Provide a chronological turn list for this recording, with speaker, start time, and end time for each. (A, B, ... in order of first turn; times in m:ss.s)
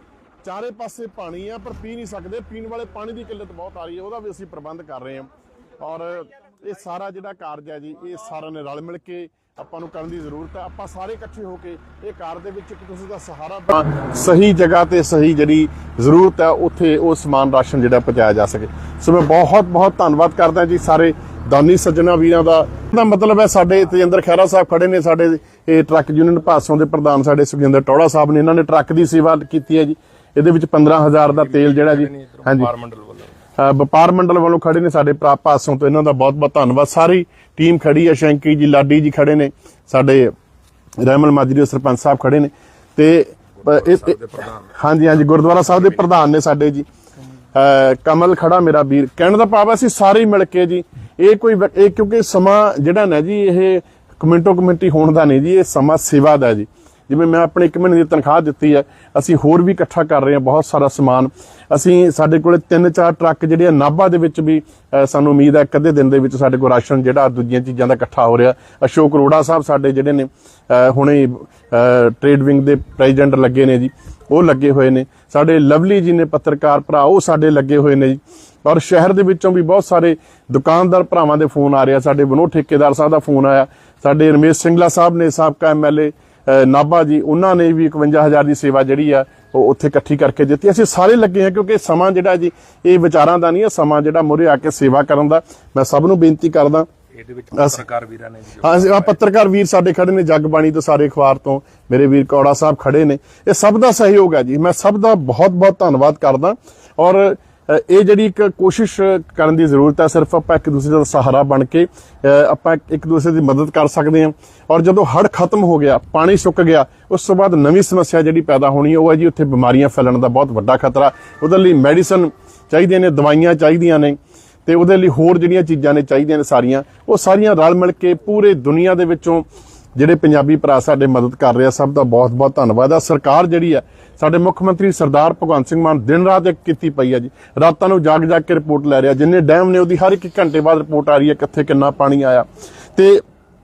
0:00.4-0:32.7 A
0:31.3-0:33.3 B
0:33.6-0:40.3 A
0:41.0-0:46.8 A
0:43.8-0:44.5 B
0:47.5-1:36.9 A
1:37.1-1:39.1 B
1:37.5-1:37.8 A
1:38.6-2:23.2 A